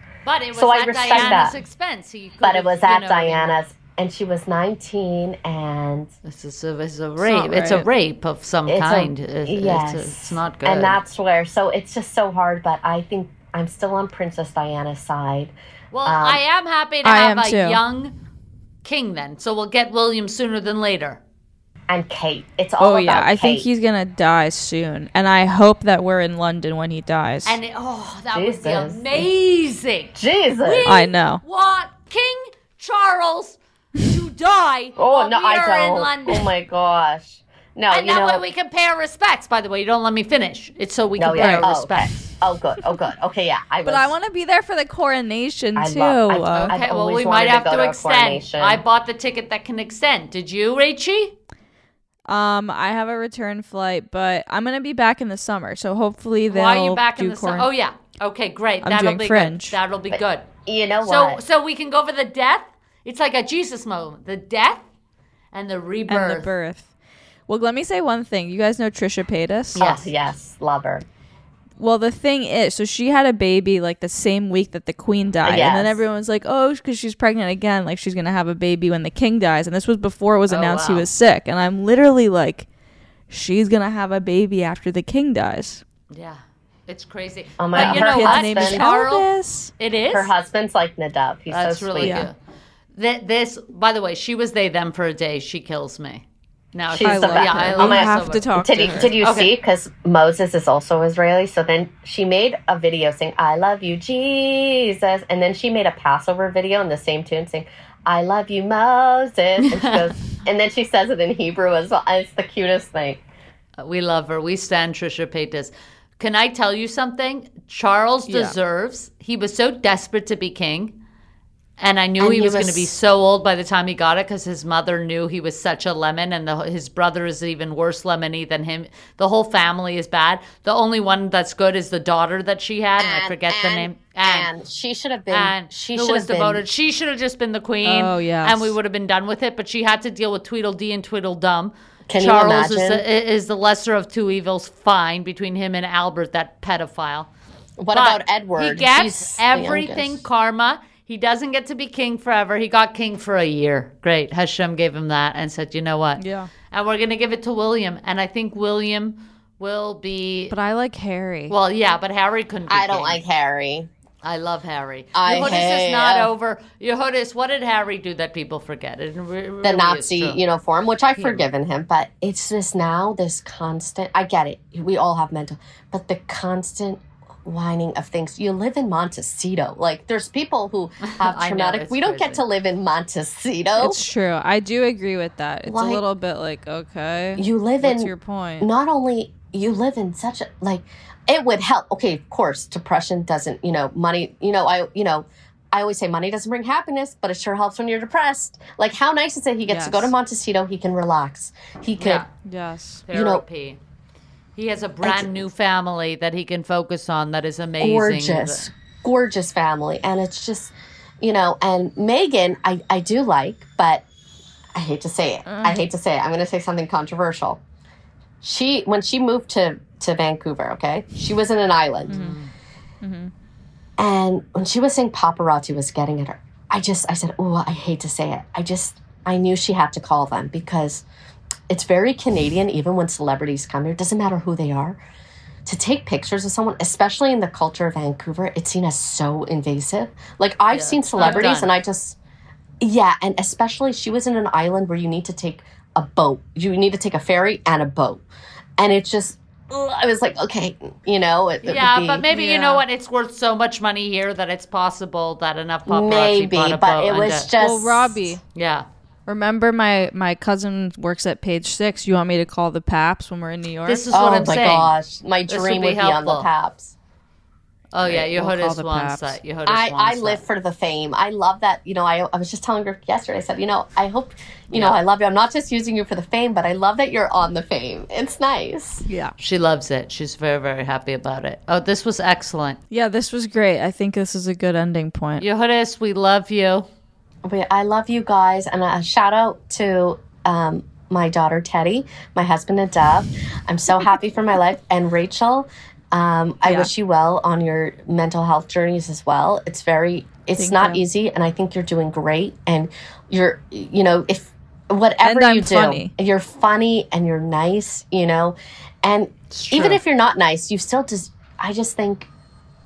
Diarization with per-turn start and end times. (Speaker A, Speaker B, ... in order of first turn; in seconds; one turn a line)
Speaker A: 0.3-3.5
Speaker B: 0.5-1.6
Speaker B: 2.4-6.1
Speaker A: 6.2-11.0
Speaker C: 7.2-7.9
Speaker B: 8.7-15.5
Speaker A: 15.9-18.1
Speaker B: 16.1-16.4
Speaker C: 17.0-17.8
Speaker A: 18.8-21.2
Speaker B: 21.9-23.7
Speaker C: 22.8-27.6
Speaker A: 27.5-36.5
Speaker B: 28.3-29.3
Speaker B: 30.2-30.9
Speaker C: 30.9-31.4
Speaker B: 35.0-38.4
Speaker A: 37.9-42.2
Speaker B: 41.2-44.1
Speaker C: 41.4-41.7
Speaker C: 43.9-46.8
Speaker B: 45.8-48.8
Speaker A: 46.6-51.4
Speaker C: 52.3-57.7
Speaker A: 56.5-60.5
Speaker C: 58.8-59.8
Speaker B: 60.1-61.4
Speaker A: 61.0-64.8
Speaker A: 65.5-66.5
Speaker C: 66.1-66.9
Speaker C: 67.5-69.8
Speaker A: 69.8-70.1
Speaker B: 69.8-71.0
Speaker C: 71.8-82.7
Speaker B: 75.4-76.0
Speaker A: 80.5-81.1
Speaker C: 83.3-85.8
Speaker A: 86.1-89.3
Speaker B: 87.6-88.8
Speaker C: 87.7-89.7
Speaker A: 89.8-90.3
Speaker B: 90.1-92.2
Speaker A: 91.5-92.3
Speaker C: 92.0-92.3
Speaker A: 93.0-98.5
Speaker B: 96.9-113.2
Speaker C: 97.0-99.1
Speaker A: 99.1-99.5
Speaker A: 109.6-110.1
Speaker A: 113.8-121.0
Speaker C: 118.3-118.6
Speaker A: 121.8-134.5
Speaker B: 122.2-123.0
Speaker B: 133.0-136.7
Speaker A: 135.3-147.3
Speaker C: 137.8-138.8
Speaker B: 142.1-143.0
Speaker B: 147.8-150.2
Speaker A: 147.9-160.5
Speaker C: 156.2-156.5
Speaker C: 160.5-161.6
Speaker A: 161.5-163.2
Speaker B: 162.7-163.9
Speaker A: 164.2-170.4
Speaker B: 165.2-166.3
Speaker B: 169.6-184.0
Speaker A: 171.2-171.4
Speaker A: 181.1-182.4
Speaker C: 183.8-188.7
Speaker B: 185.7-186.0
Speaker B: 187.4-202.2
Speaker C: 199.7-200.1
Speaker A: 202.0-202.3
Speaker C: 202.4-203.0
Speaker A: 203.1-203.8
Speaker B: 203.1-203.4
Speaker A: 204.6-208.7
Speaker B: 205.0-205.4
Speaker B: 207.8-214.1
Speaker B: 214.8-217.6
Speaker C: 215.5-215.8
Speaker B: 218.4-222.2
Speaker A: 222.1-222.5
Speaker C: 222.1-222.4
Speaker C: 223.0-223.3
Speaker B: 224.0-231.1
Speaker B: 231.7-235.0
Speaker B: 235.7-242.2
Speaker A: 240.7-241.7
Speaker C: 241.2-241.5
Speaker B: 242.8-248.2
Speaker B: 248.8-252.3
Speaker A: 251.6-257.5
Speaker C: 252.3-252.8
Speaker B: 255.9-258.3
Speaker C: 257.6-258.4
Speaker A: 258.6-258.9
Speaker C: 259.3-264.1
Speaker A: 263.9-264.9
Speaker B: 264.1-266.9
Speaker A: 265.5-266.5
Speaker A: 267.9-270.4
Speaker C: 268.0-269.4
Speaker B: 269.7-279.0
Speaker A: 274.7-275.0
Speaker C: 279.1-279.3
Speaker A: 279.4-282.8
Speaker C: 282.9-285.4
Speaker A: 285.4-286.9
Speaker B: 287.4-312.3
Speaker C: 296.6-296.9
Speaker C: 300.6-301.0
Speaker C: 305.2-306.1
Speaker A: 309.5-310.0